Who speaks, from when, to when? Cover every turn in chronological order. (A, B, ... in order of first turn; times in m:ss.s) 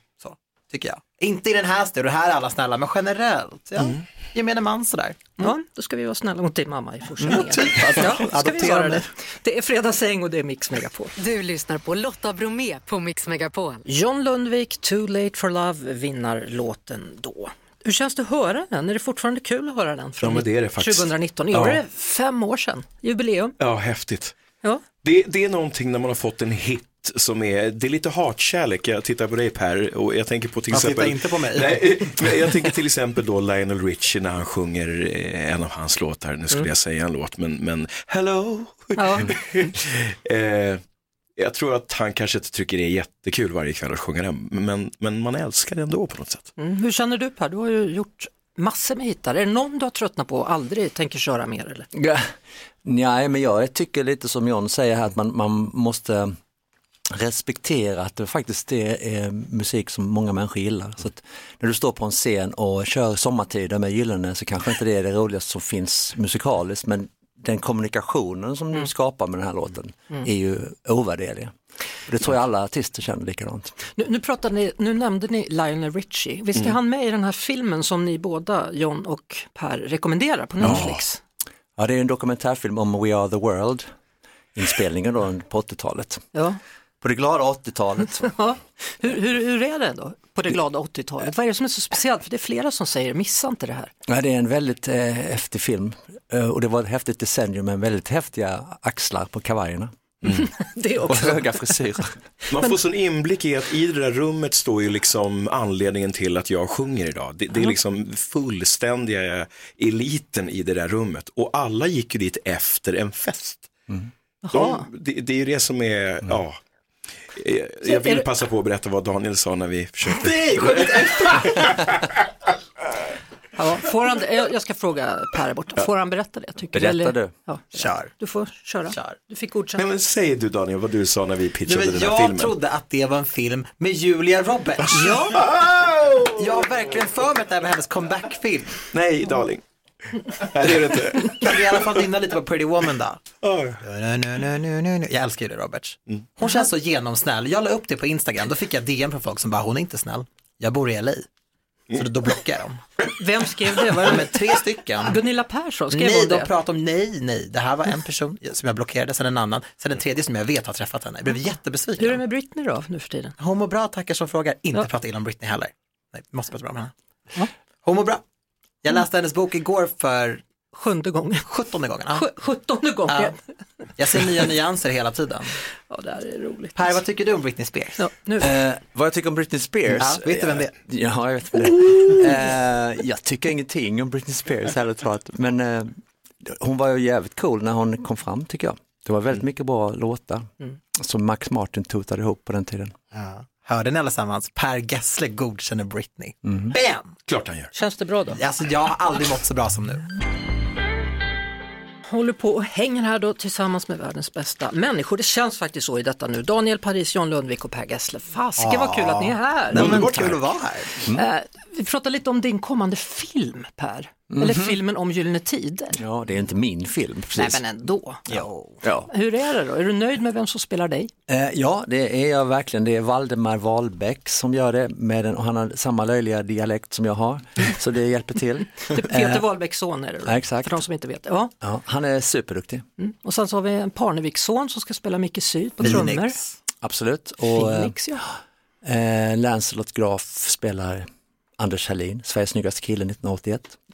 0:00.2-0:05.5 A
0:05.4-0:11.1 B
0:07.2-0:09.1 A
0:11.2-0:13.8 C
0:13.8-0:23.6 B
0:20.2-0:21.8 D
0:23.6-0:24.3 D
0:25.0-0:40.8 D
0:30.7-0:32.3 A
0:39.0-0:39.4 B
0:41.4-0:46.5 D
0:46.6-0:51.9 B
0:51.9-0:52.3 E
0:52.8-0:56.4 E
0:57.1-1:11.5 E
1:12.1-1:13.8 E
1:14.0-1:21.2 B
1:20.6-1:21.0 D
1:21.8-1:23.8 E
1:24.5-1:26.2 E
1:26.3-1:26.6 B
1:27.0-1:28.3 E
1:28.2-1:33.9 B
1:34.1-1:39.9 E
1:40.2-1:40.5 D
1:40.3-1:41.7 B
1:41.0-1:42.1 E
1:42.5-1:53.7 D
1:54.4-1:54.8 B
1:54.5-1:56.6 D
1:57.3-2:01.8 D
1:57.8-1:58.2 B
2:00.1-2:01.8 A
2:03.6-2:09.8 B
2:06.7-2:07.3 E
2:07.7-2:08.1 A
2:09.8-2:12.5 D
2:11.6-2:15.4 A
2:14.9-2:15.4 B
2:15.3-2:16.6 D
2:16.4-2:18.8 A
2:18.9-2:19.6 D
2:20.2-2:21.9 D
2:21.2-2:23.2 A
2:23.4-2:23.8 D
2:23.8-2:31.3 A
2:31.9-2:32.8 A
2:33.1-2:34.4 B
2:33.9-2:35.2 A
2:35.0-2:36.5 B
2:35.9-2:42.2 A
2:42.0-2:43.4 B
2:43.4-2:46.9 A
2:47.8-2:48.2 A
2:48.8-2:50.4 A
2:50.7-2:51.5 B
2:51.5-2:52.3 A
2:52.1-2:53.4 B
2:53.1-2:53.3 A
2:54.0-2:55.6 A
2:55.9-2:56.8 B
2:56.8-2:58.0 A
2:58.0-2:58.5 B
2:58.4-3:12.9 E
3:00.0-3:00.7 A
3:13.1-3:17.1 A
3:16.5-3:16.7 E
3:17.3-3:17.7 D
3:17.7-3:18.4 B
3:18.4-3:20.1 A
3:22.1-3:30.1 B
3:28.6-3:31.0 A
3:29.8-3:30.4 D
3:31.1-3:36.0 B
3:34.3-3:34.8 E
3:36.0-3:37.6 E
3:37.3-3:38.4 B
3:38.3-3:38.7 A
3:38.8-3:39.1 E
3:39.1-3:41.1 B
3:41.3-3:49.4 E
3:48.9-3:51.5 B
3:50.2-3:50.8 E
3:51.6-3:52.8 E
3:53.0-3:56.4 B
3:55.8-3:56.5 A
3:56.8-3:58.0 E
3:57.5-3:58.2 B
3:58.8-4:01.1 E
4:01.6-4:03.8 E